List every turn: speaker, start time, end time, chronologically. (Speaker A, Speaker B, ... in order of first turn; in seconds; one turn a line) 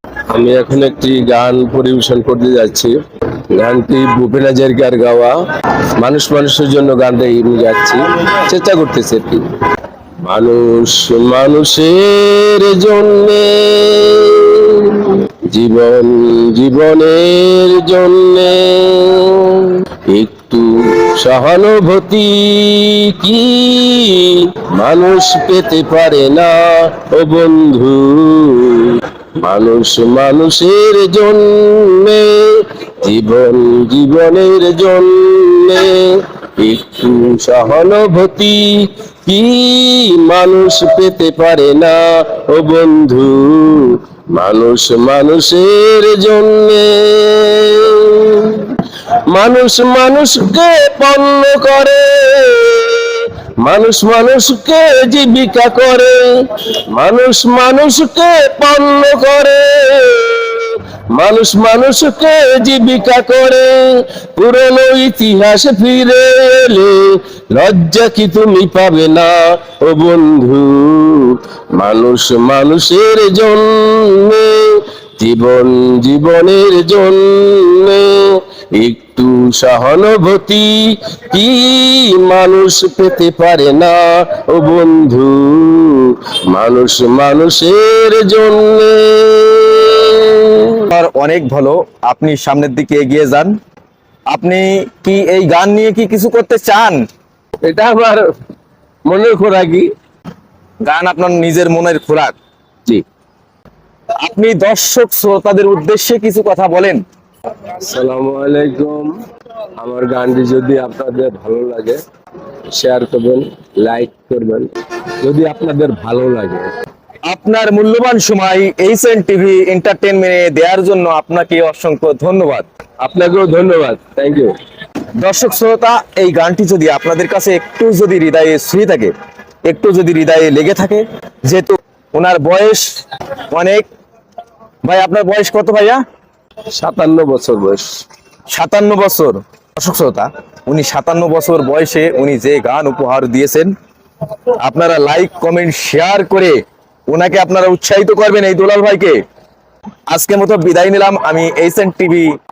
Speaker A: 0.3-2.9
Speaker A: 3.5-5.3
Speaker A: 6.0-9.4
Speaker A: 10.2-48.7
Speaker A: 49.3-90.9
Speaker B: 90.9-93.5
Speaker B: 94.3-97.0
Speaker A: 97.6-98.3
Speaker A: 99.1-99.9
Speaker B: 100.8-102.3
Speaker B: 104.2-107.0
Speaker A: 107.7-109.1
Speaker A: 109.8-112.0
Speaker A: 112.7-116.7
Speaker B: 117.3-122.7
Speaker A: 123.0-124.5
Speaker B: 125.2-129.1
Speaker B: 129.7-132.9
Speaker B: 133.5-133.8
Speaker B: 134.8-136.0
Speaker A: 136.7-137.9
Speaker B: 138.5-143.7
Speaker B: 144.6-146.5
Speaker B: 147.1-149.2
Speaker B: 150.1-152.3